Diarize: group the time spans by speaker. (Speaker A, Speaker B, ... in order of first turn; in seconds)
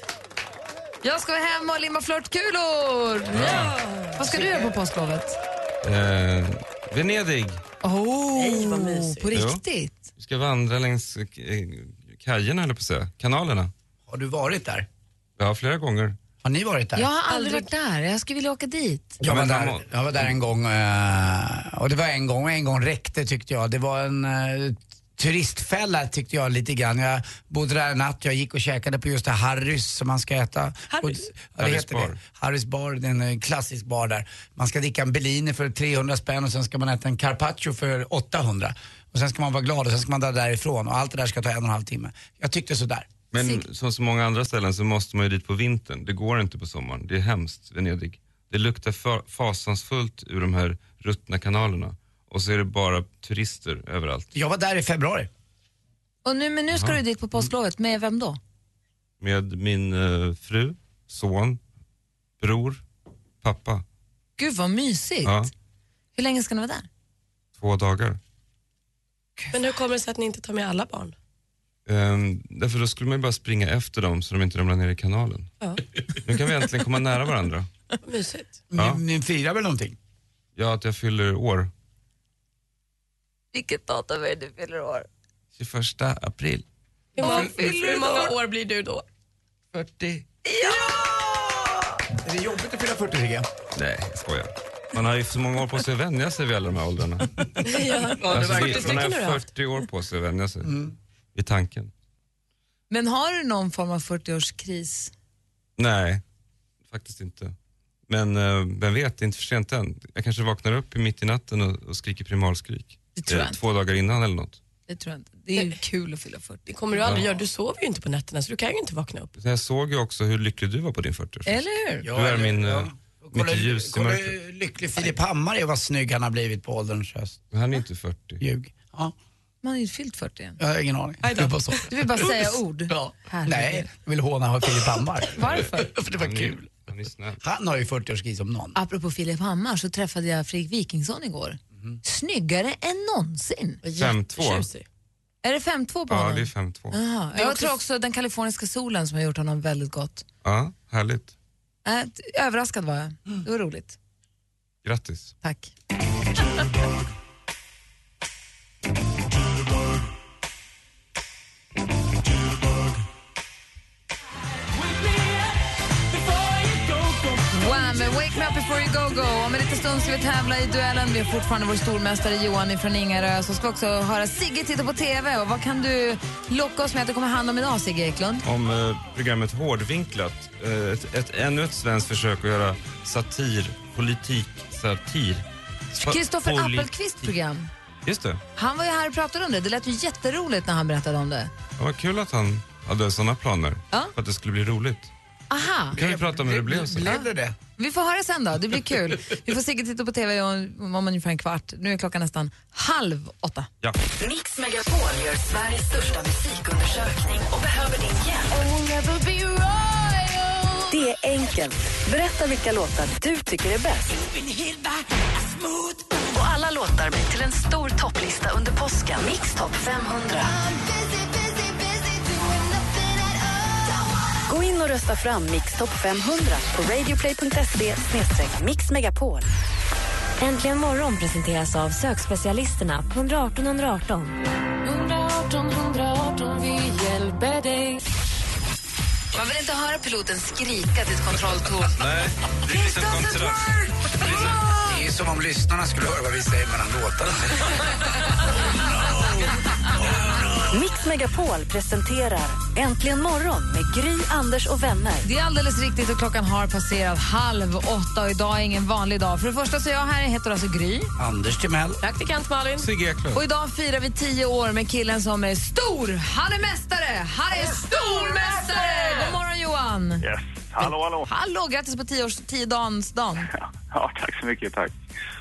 Speaker A: 1.0-5.3, 7.8-10.0, 16.9-19.2, 43.4-43.6, 56.2-58.4, 64.4-65.5, 66.1-66.9, 83.5-85.1, 87.2-88.3, 90.4-91.2, 102.9-105.1, 113.1-113.6, 114.9-116.7, 121.5-122.1, 129.6-130.6, 131.8-133.9, 135.3-135.9, 138.7-143.8, 145.4-150.2, 151.8-154.0, 155.4-155.7, 167.5-178.4, 186.0-187.7, 188.6-191.5, 195.5-196.0, 197.0-203.7, 239.3-242.0, 243.1-243.5, 255.2-261.1, 263.3-270.2, 270.8-273.5
Speaker B: 3.3-3.7, 5.8-7.6, 9.3-9.6, 10.2-13.7, 15.4-16.2, 19.2-20.3, 31.6-32.2, 43.3-54.3, 56.7-57.0, 59.2-61.6, 62.4-62.8, 63.4-63.8, 65.2-65.5, 67.6-68.2, 71.8-75.5, 76.2-77.7, 80.5-81.7, 85.6-86.6, 89.7-90.2, 93.7-100.7, 101.3-101.9, 105.8-106.2, 106.9-107.5, 108.1-114.6, 117.0-117.3, 119.4-124.3, 127.5-128.4, 136.2-137.4, 143.9-144.7, 146.1-147.0, 150.4-151.3, 154.8-155.3, 178.4-186.9, 188.1-188.4, 191.8-195.1, 195.9-197.2, 242.0-244.6, 262.8-263.4
Speaker C: 3.3-4.5, 8.3-9.3, 17.3-17.7, 69.5-71.1, 78.0-78.6, 87.1-89.0, 97.6-99.4, 116.7-119.3, 143.8-144.8, 147.3-147.8, 262.0-262.9
Speaker D: 14.1-14.8, 16.4-17.1, 19.2-43.1, 54.3-55.3, 78.7-80.0, 92.2-93.5, 98.2-99.0, 100.6-100.9, 122.0-127.4, 128.4-129.1, 130.6-132.4, 132.9-136.7, 137.4-138.8, 195.9-197.5, 244.7-247.7, 261.2-262.0
Speaker E: 204.2-208.5, 210.9-214.2, 216.1-220.6, 224.5-229.4, 250.7-255.3
Speaker F: 230.4-234.4
Speaker G: 234.8-238.0
Speaker H: 270.2-271.3, 273.5-274.9